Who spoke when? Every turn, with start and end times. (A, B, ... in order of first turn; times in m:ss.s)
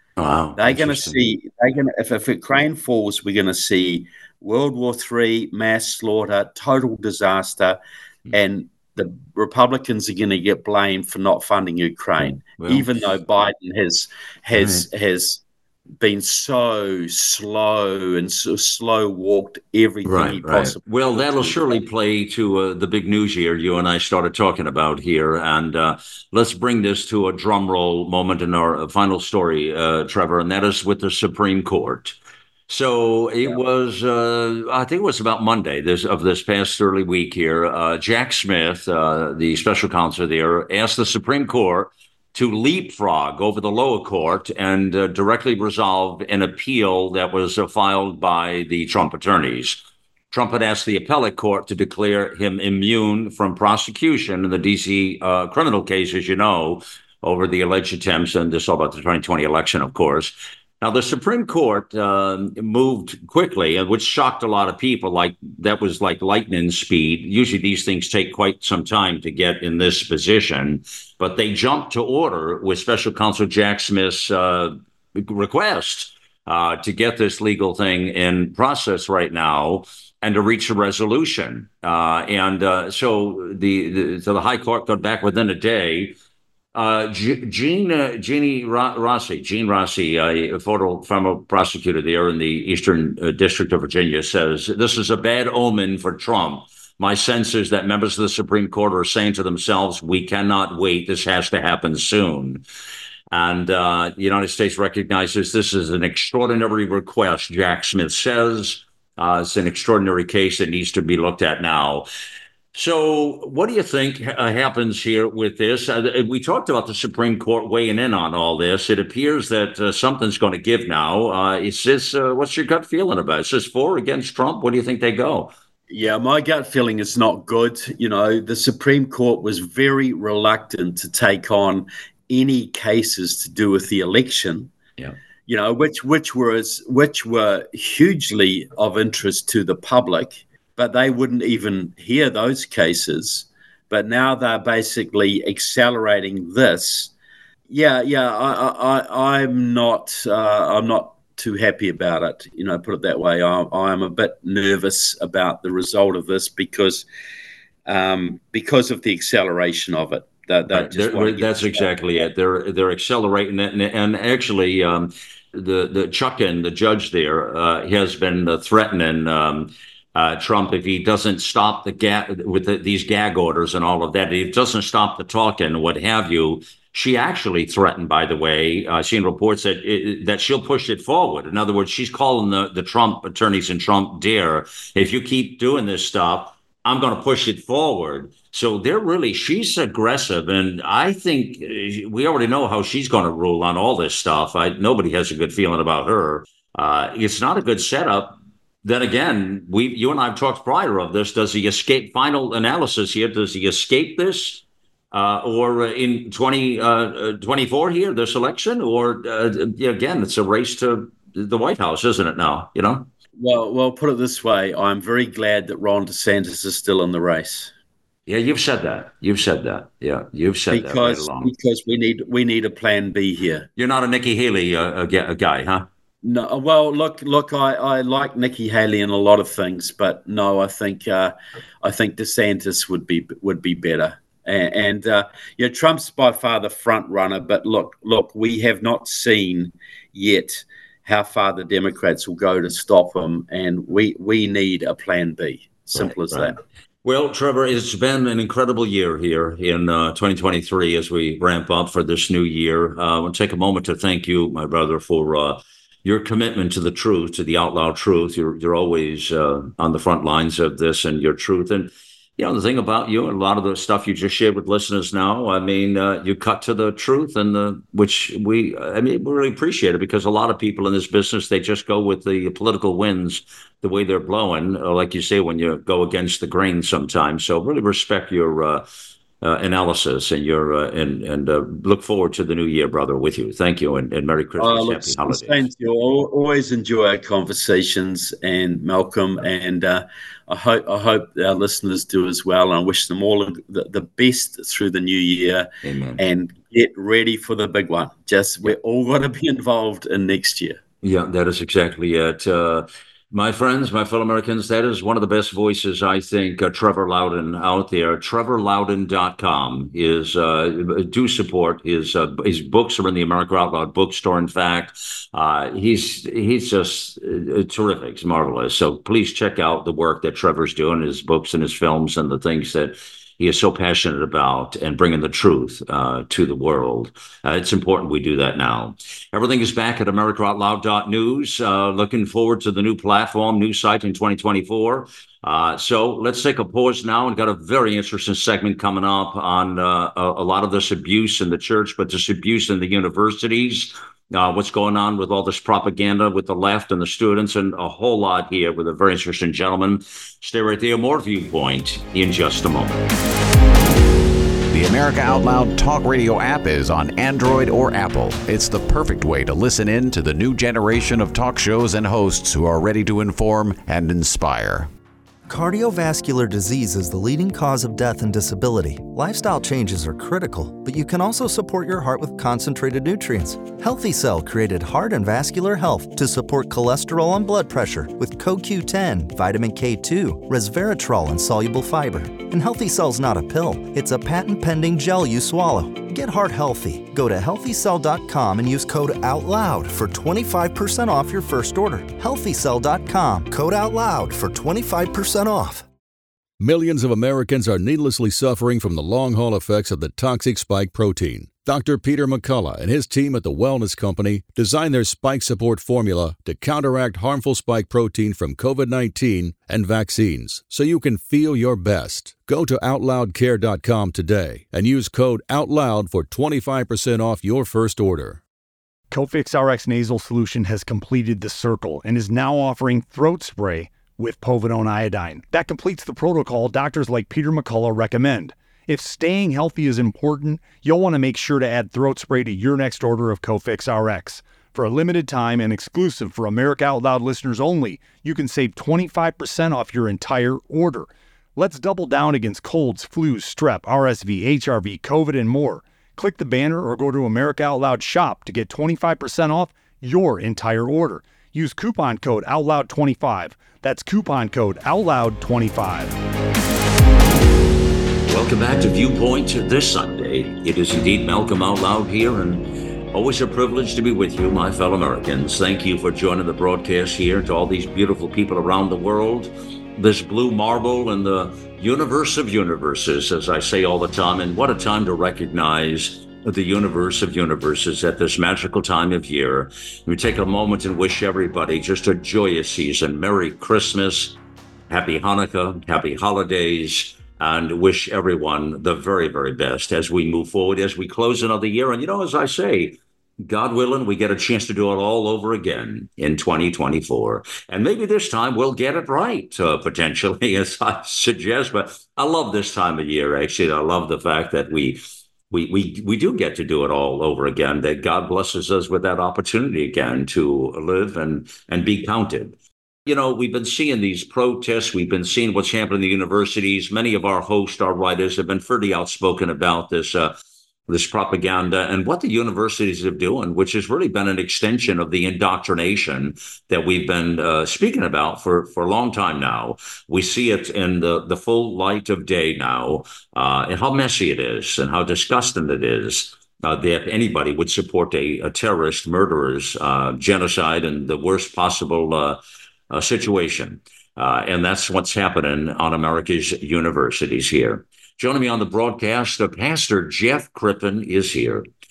0:00.2-0:01.2 A
0:00.6-0:07.8 B
0:08.3-0:15.4 B
0:12.2-0:12.9 A
0:14.5-0:14.8 A
0:16.0-0:21.8 B
0:20.0-0:32.2 A
0:32.7-1:26.2 A
1:26.7-1:42.6 A
1:43.3-1:52.0 A
1:52.7-2:05.5 A
2:05.9-2:14.7 B
2:15.5-2:27.1 B
2:27.7-2:37.0 B
2:37.8-2:41.8 B
2:40.7-3:33.1 A
3:33.4-3:37.7 B
3:38.3-3:41.5 A
3:40.7-3:43.7 B
3:43.8-3:45.9 A
3:46.2-4:06.6 B
4:05.9-4:38.8 A
4:39.4-4:45.7 A
4:44.6-5:00.8 B
4:55.8-4:56.2 A
5:01.0-5:53.0 A
5:54.7-6:04.9 C
6:05.5-6:35.8 D
6:36.6-6:58.4 E
6:59.1-7:36.1 F
7:38.2-8:04.4 A
8:04.9-8:40.3 A
8:40.9-9:11.7 A